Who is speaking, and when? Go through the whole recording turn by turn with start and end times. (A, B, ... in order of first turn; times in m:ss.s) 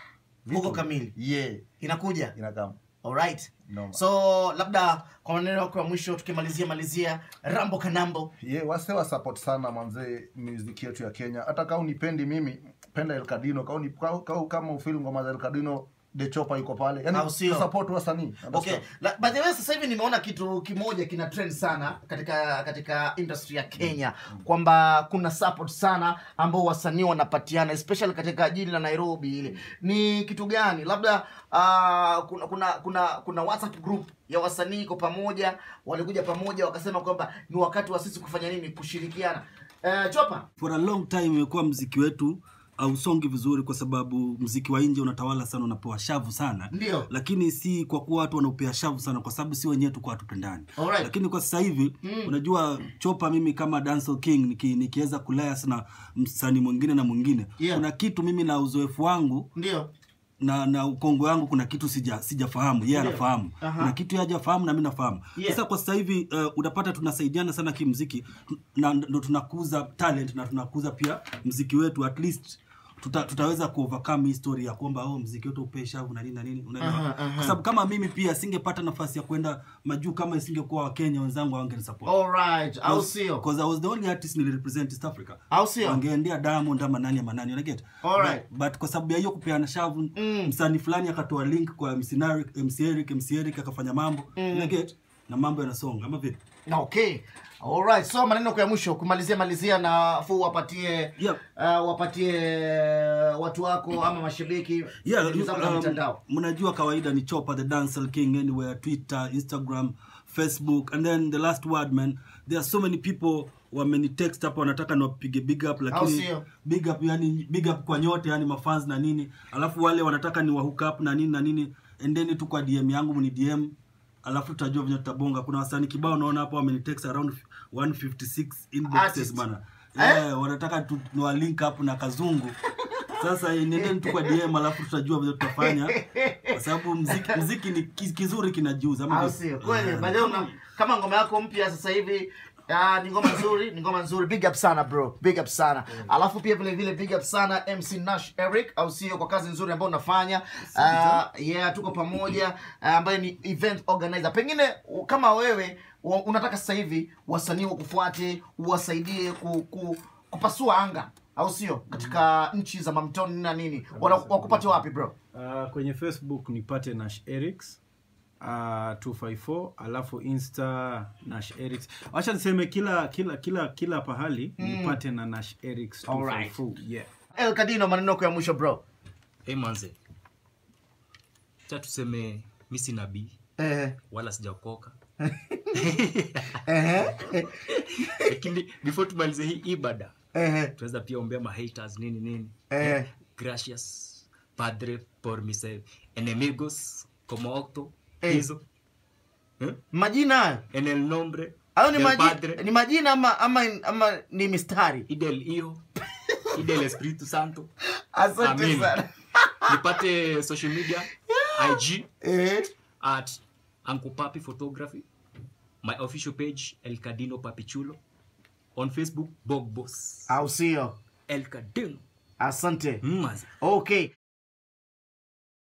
0:00.4-0:01.1 A
0:00.5-0:01.6 B
0:01.8-0:02.3 A
0:02.3-0:02.8 B
0:03.0-0:08.3 A
0:03.7-0:04.0 B
0:08.4-0:18.8 B
0:17.1-0:17.7 A
0:18.5-0:40.4 A
0:40.6-0:59.5 C
0:46.7-0:47.1 A
0:50.8-0:51.1 A
0:52.0-0:52.3 A
0:57.6-0:57.8 A
0:59.5-0:59.9 A
1:00.4-1:22.1 C
1:02.9-1:03.9 A
1:16.8-1:17.6 A
1:22.0-1:23.4 A
1:22.8-1:36.4 C
1:25.5-1:26.0 A
1:28.0-1:28.4 A
1:30.2-1:30.5 A
1:34.4-1:34.7 A
1:36.7-1:46.2 A
1:45.0-2:03.7 C
1:55.9-1:56.4 A
2:04.2-2:12.6 C
2:08.9-2:09.4 A
2:10.0-2:10.2 A
2:12.8-2:13.1 A
2:13.1-2:20.5 C
2:13.8-2:14.4 A
2:15.6-2:16.6 A
2:17.1-2:17.4 A
2:19.1-2:45.1 A
2:43.9-2:44.8 D
2:45.3-2:47.8 D
2:48.4-2:57.1 D
2:54.6-2:55.0 A
2:56.0-2:56.6 A
2:57.3-2:58.8 A
2:59.4-3:00.0 E
3:01.7-3:03.4 E
3:03.6-3:04.0 A
3:04.0-3:05.0 E
3:05.2-3:05.8 A
3:05.7-3:10.1 E
3:06.6-3:07.6 A
3:10.3-3:10.7 A
3:10.8-3:18.6 E
3:12.7-3:13.1 A
3:19.9-3:20.6 A
3:20.7-3:22.6 E
3:21.8-3:25.0 A
3:25.1-3:25.8 E
3:26.5-3:27.7 E
3:28.1-3:29.8 A
3:28.4-3:29.0 E
3:29.7-3:32.1 E
3:31.3-3:32.7 A
3:33.0-3:35.1 E
3:35.8-3:38.0 E
3:38.8-3:40.4 E
3:40.3-3:41.0 A
3:41.3-3:42.0 E
3:42.4-3:43.0 A
3:43.0-3:43.5 E
3:43.6-3:44.1 A